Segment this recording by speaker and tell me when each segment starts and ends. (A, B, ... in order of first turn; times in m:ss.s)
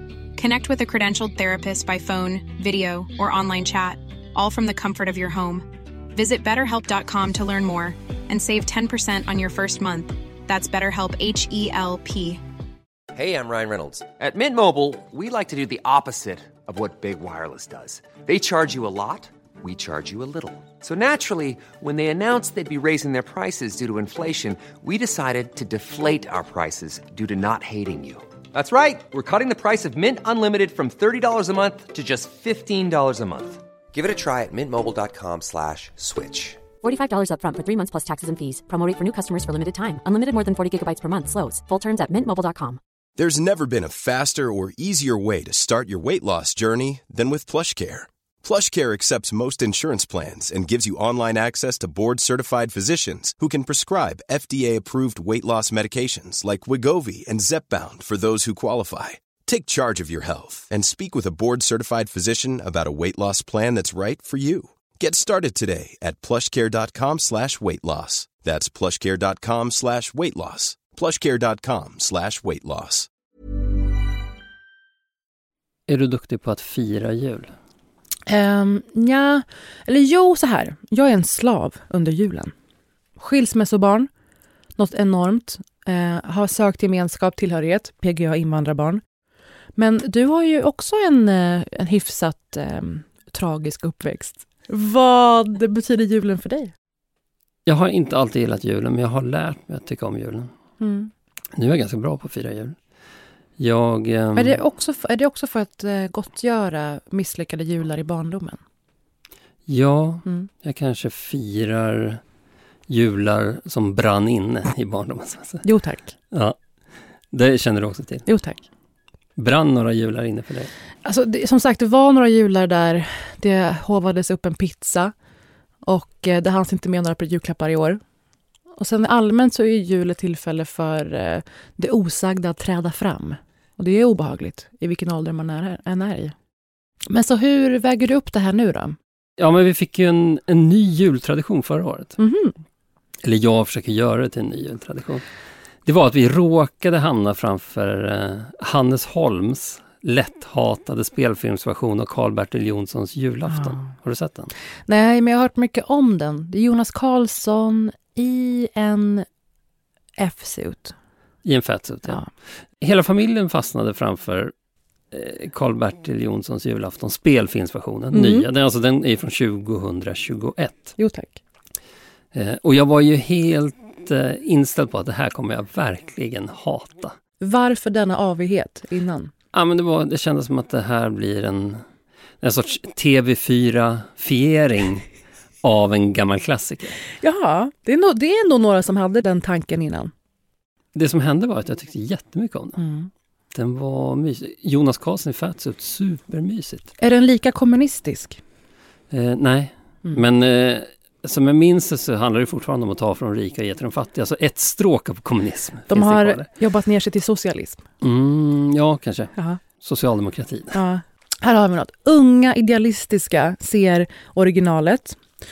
0:00.4-0:12.4 A
0:13.1-0:36.6 B
0:36.8-0:42.8 C
0:43.2-1:13.1 D
1:15.9-1:17.5 E
1:18.3-1:22.5 F
1:23.2-1:24.1 F
1:24.8-1:29.0 F
1:29.8-1:36.7 F
1:37.6-1:40.5 E
1:40.8-1:41.1 F
1:41.6-1:42.8 E
1:43.6-1:44.6 E
1:44.4-1:48.6 F
1:49.7-1:52.2 E
1:52.9-1:55.6 E
1:55.6-1:56.1 F
1:56.3-1:56.6 E
1:57.3-1:58.3 E
1:58.2-1:58.6 F
1:59.4-2:00.7 E
2:01.0-2:05.1 F
2:05.8-2:08.0 F
2:08.8-2:16.3 F
2:17.1-2:19.0 F
2:19.4-2:22.1 E
2:22.2-2:22.6 F
2:23.2-2:25.2 E
2:25.8-2:34.5 E
2:33.5-2:33.9 F
2:34.9-2:39.2 F
2:40.2-2:40.9 F
2:41.4-2:42.2 E
2:42.8-2:44.5 E
2:45.1-2:50.9 E
2:48.1-2:48.5 F
2:51.0-2:51.4 F
2:52.3-2:57.2 E
2:57.4-2:59.3 F
2:59.5-3:01.8 E
3:02.4-3:05.0 E
3:05.6-3:07.0 E
3:07.2-3:10.1 F
3:10.9-3:12.8 E
3:12.8-3:13.1 F
3:13.5-3:16.9 E
3:17.0-3:18.4 F
3:19.1-3:26.5 E
3:25.9-3:27.8 F
3:28.0-3:30.8 E
3:30.7-3:35.2 F